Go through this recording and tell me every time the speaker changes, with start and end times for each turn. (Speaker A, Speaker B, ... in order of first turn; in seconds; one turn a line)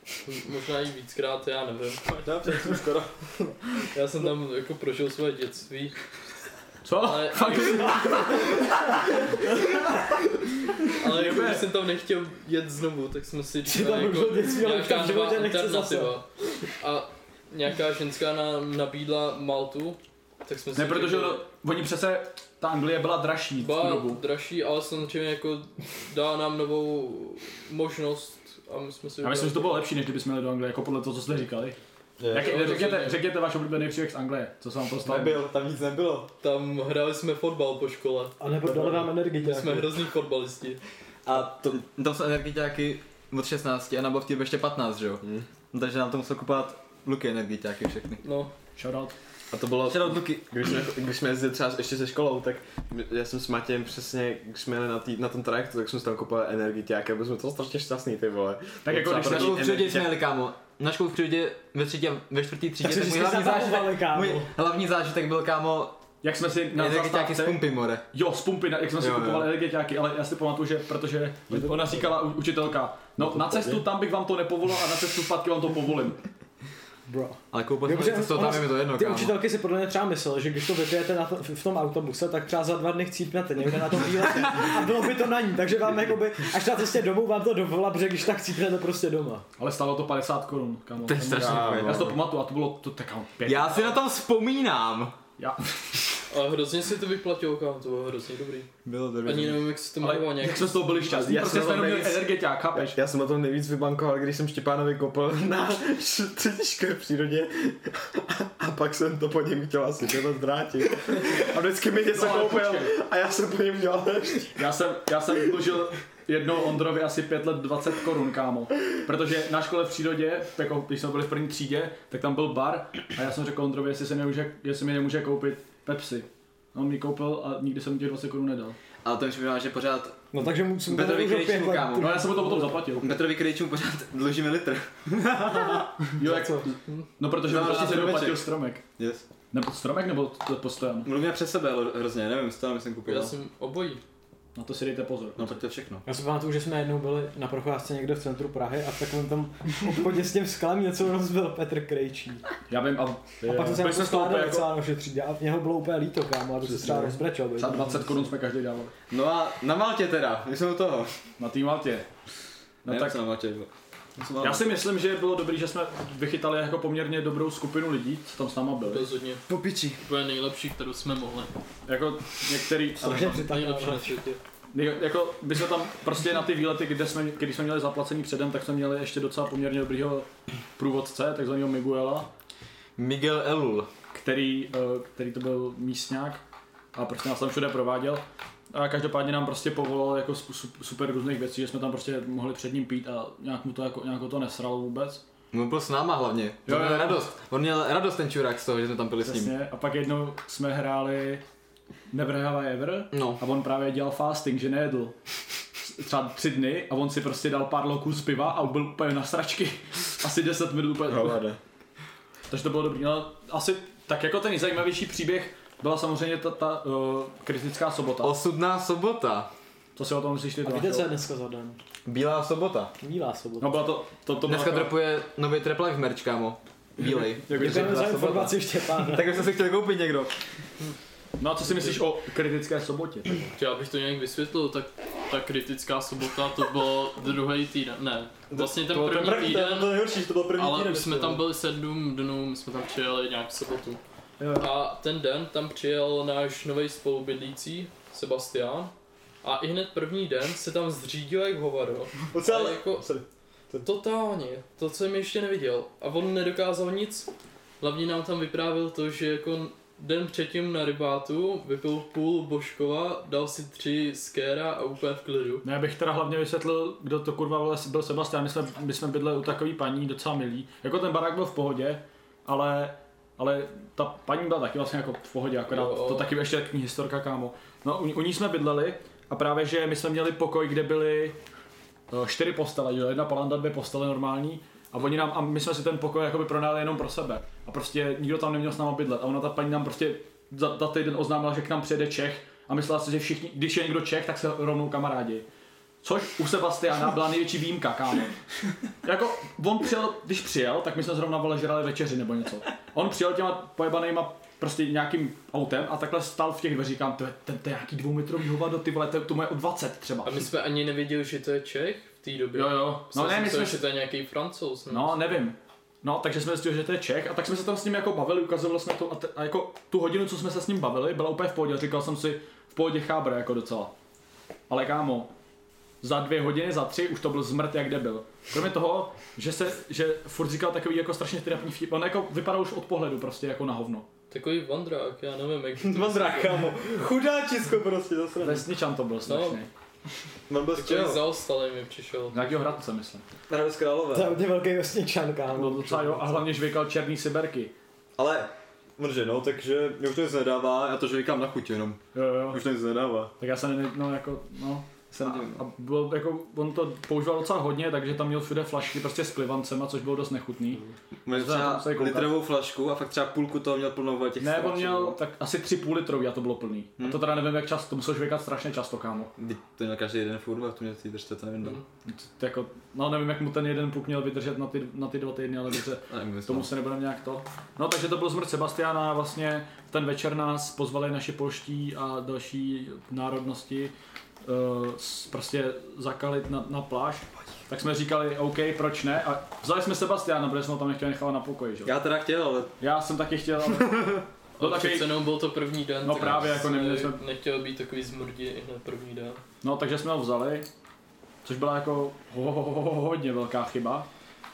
Speaker A: 0.2-2.1
Speaker B: 2.2-3.5
Speaker A: 3.9-6.0
Speaker C: 6.8-8.7
Speaker A: 6.9-8.4
Speaker A: 10.9-21.4
Speaker C: 10.9-11.7
Speaker D: 13.7-16.1
Speaker C: 20.8-24.2
Speaker A: 23.6-29.8
Speaker C: 29.2-31.8
Speaker B: 32.2-32.8
Speaker C: 32.3-35.4
Speaker A: 32.4-33.2
Speaker B: 35.0-36.3
Speaker A: 36.4-38.4
Speaker D: 38.4-39.9
Speaker A: 39.2-40.8
Speaker B: 41.2-48.2
Speaker A: 48.2-48.5
Speaker C: 48.8-49.1
Speaker E: 49.5-60.1
Speaker B: 49.9-50.5
Speaker C: 58.8-59.6
Speaker B: 59.1-66.0
Speaker D: 62.8-64.5
Speaker C: 66.2-76.2
Speaker B: 66.7-68.0
Speaker B: 69.0-69.5
Speaker D: 77.1-89.4
Speaker B: 77.5-79.4
Speaker C: 89.6-93.7
Speaker B: 91.1-92.1
Speaker E: 91.3-92.2
Speaker B: 93.4-95.2
Speaker A: 96.3-98.7
Speaker B: 98.8-99.7
Speaker A: 99.2-100.9
Speaker C: 100.0-103.0
Speaker E: 101.0-102.2
Speaker E: 102.7-114.6
Speaker C: 111.5-113.0
Speaker C: 114.5-128.8
Speaker B: 129.0-130.2
Speaker D: 130.3-132.8
Speaker B: 130.9-135.8
Speaker C: 132.0-133.2
Speaker D: 135.4-136.7
Speaker C: 136.1-138.8
Speaker B: 137.4-139.2
Speaker C: 139.5-141.1
Speaker B: 141.0-143.3
Speaker A: 143.1-144.0
Speaker C: 144.5-145.6
Speaker B: 145.3-146.1
Speaker D: 146.1-152.4
Speaker C: 152.7-154.7
Speaker D: 153.4-158.2
Speaker C: 157.6-158.9
Speaker B: 159.1-161.2
Speaker C: 161.4-162.1
Speaker C: 162.8-163.2
Speaker B: 162.8-164.7
Speaker C: 164.4-169.1
Speaker A: 168.8-169.4
Speaker B: 169.5-170.0
Speaker A: 170.0-171.5
Speaker C: 171.9-173.6
Speaker D: 173.0-174.2
Speaker A: 173.4-174.4
Speaker C: 174.7-182.3
Speaker B: 183.0-183.9
Speaker C: 184.1-186.4
Speaker C: 186.9-195.2
Speaker B: 195.5-199.5
Speaker C: 196.7-197.3
Speaker C: 199.2-201.4
Speaker C: 202.1-205.1
Speaker B: 203.1-203.4
Speaker C: 205.8-211.4
Speaker E: 211.1-211.6
Speaker C: 212.5-218.3
Speaker B: 218.2-219.5
Speaker C: 219.9-221.1
Speaker D: 220.6-221.8
Speaker B: 222.1-222.9
Speaker D: 223.0-223.8
Speaker C: 223.6-224.9
Speaker B: 224.4-230.3
Speaker C: 227.0-228.2
Speaker D: 227.5-229.4
Speaker C: 231.4-233.5
Speaker A: 231.7-232.0
Speaker A: 233.6-244.0
Speaker B: 238.5-241.4
Speaker C: 244.4-244.7
Speaker A: 244.5-253.1
Speaker B: 252.3-253.9
Speaker A: 253.8-265.6
Speaker C: 265.6-281.4
Speaker A: 275.7-276.3
Speaker C: 282.1-295.4
Speaker C: 296.0-298.3
Speaker C: 299.0-310.3
Speaker A: 310.2-315.4
Speaker C: 312.5-313.8
Speaker C: 314.9-323.9
Speaker C: 324.7-325.3
Speaker C: 326.0-334.1
Speaker A: 334.3-336.7
Speaker B: 335.8-338.6
Speaker C: 338.4-339.7
Speaker A: 339.2-339.6
Speaker B: 340.5-341.2
Speaker A: 340.8-342.6
Speaker C: 342.3-343.2
Speaker B: 343.5-344.4
Speaker D: 344.1-346.4
Speaker C: 345.5-347.7
Speaker B: 348.1-353.3
Speaker C: 352.1-352.6
Speaker C: 353.4-362.4
Speaker B: 355.1-355.6
Speaker B: 361.2-365.2
Speaker C: 364.4-369.3
Speaker B: 367.0-367.2
Speaker B: 369.4-371.8
Speaker C: 372.0-383.9
Speaker B: 376.1-376.7
Speaker C: 384.4-391.9
Speaker B: 391.8-392.7
Speaker C: 392.8-395.1
Speaker A: 394.6-399.4
Speaker C: 396.0-397.2
Speaker C: 399.6-400.7
Speaker C: 401.4-404.1